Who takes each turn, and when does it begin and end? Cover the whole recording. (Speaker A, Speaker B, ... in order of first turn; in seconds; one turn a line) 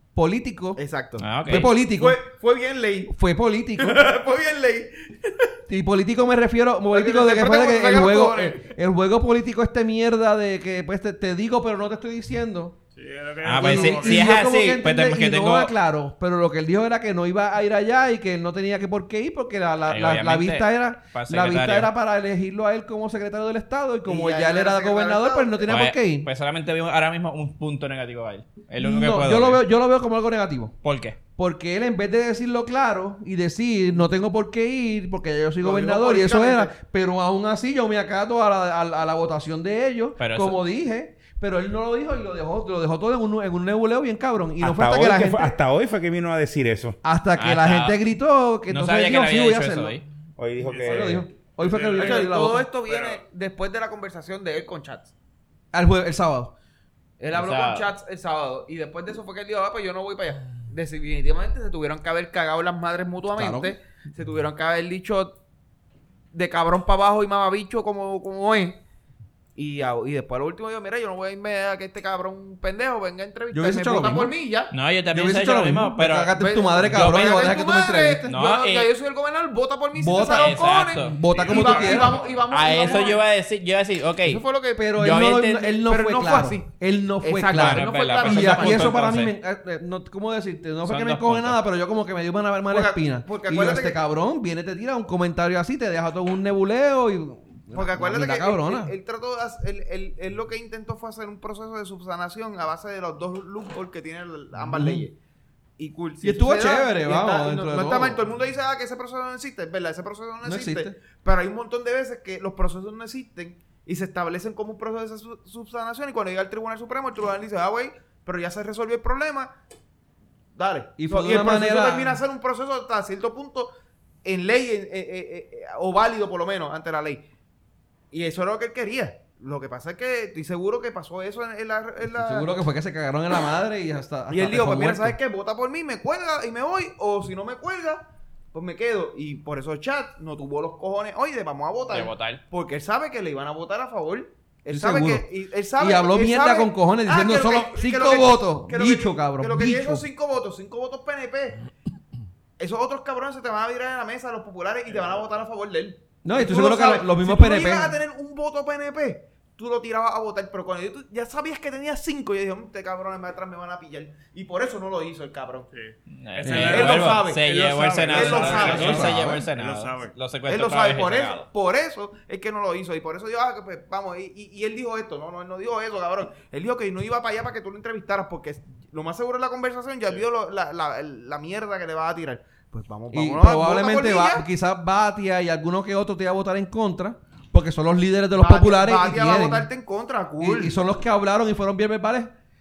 Speaker A: 0.1-0.8
Speaker B: 0.8-3.1
Speaker C: 1.2-1.7
Speaker A: 1.4-2.2
Speaker A: 3.1-4.0
Speaker B: 3.8-5.5
Speaker A: 5.7-12.8
Speaker B: 6.9-8.7
Speaker D: 12.9-14.3
Speaker C: 13.4-15.7
Speaker A: 13.6-26.3
Speaker C: 19.9-21.9
Speaker B: 24.1-25.7
Speaker C: 25.7-29.6
Speaker A: 28.8-30.8
Speaker C: 30.8-31.2
Speaker A: 31.4-45.6
Speaker B: 35.6-36.7
Speaker C: 40.2-40.6
Speaker E: 44.6-47.0
Speaker A: 47.0-50.0
Speaker C: 47.4-48.0
Speaker C: 48.7-50.0
Speaker E: 50.4-51.3
Speaker D: 50.6-53.2
Speaker A: 50.8-52.6
Speaker B: 52.0-55.1
Speaker A: 55.7-56.5
Speaker B: 57.2-65.4
Speaker C: 57.3-57.9
Speaker A: 63.3-63.7
Speaker B: 66.3-68.8
Speaker B: 69.5-74.7
Speaker A: 73.5-74.3
Speaker C: 74.7-76.3
Speaker A: 75.1-78.3
Speaker B: 76.3-83.2
Speaker C: 76.8-77.4
Speaker C: 78.3-78.9
Speaker A: 79.9-82.2
Speaker C: 80.2-81.2
Speaker D: 81.3-82.4
Speaker C: 82.5-84.4
Speaker B: 84.2-84.9
Speaker A: 84.8-98.9
Speaker C: 84.9-85.8
Speaker B: 85.8-86.7
Speaker B: 87.2-89.0
Speaker C: 87.5-89.3
Speaker C: 90.8-91.6
Speaker B: 92.7-94.0
Speaker B: 97.7-105.1
Speaker A: 104.5-105.1
Speaker B: 105.8-119.5
Speaker A: 106.2-108.2
Speaker A: 110.4-111.0
Speaker B: 120.5-123.7
Speaker A: 121.0-122.2
Speaker B: 124.2-127.2
Speaker B: 128.1-132.5
Speaker A: 132.1-135.2
Speaker B: 134.3-151.6
Speaker C: 141.9-142.4
Speaker A: 144.7-145.2
Speaker A: 145.8-150.0
Speaker B: 152.6-165.7
Speaker A: 156.2-158.0
Speaker D: 165.7-170.1
Speaker C: 166.1-171.5
Speaker A: 166.4-166.8
Speaker B: 166.7-167.4
Speaker B: 168.0-169.3
Speaker A: 168.6-169.2
Speaker B: 170.5-184.4
Speaker A: 183.1-189.7
Speaker B: 188.4-190.7
Speaker A: 190.4-192.3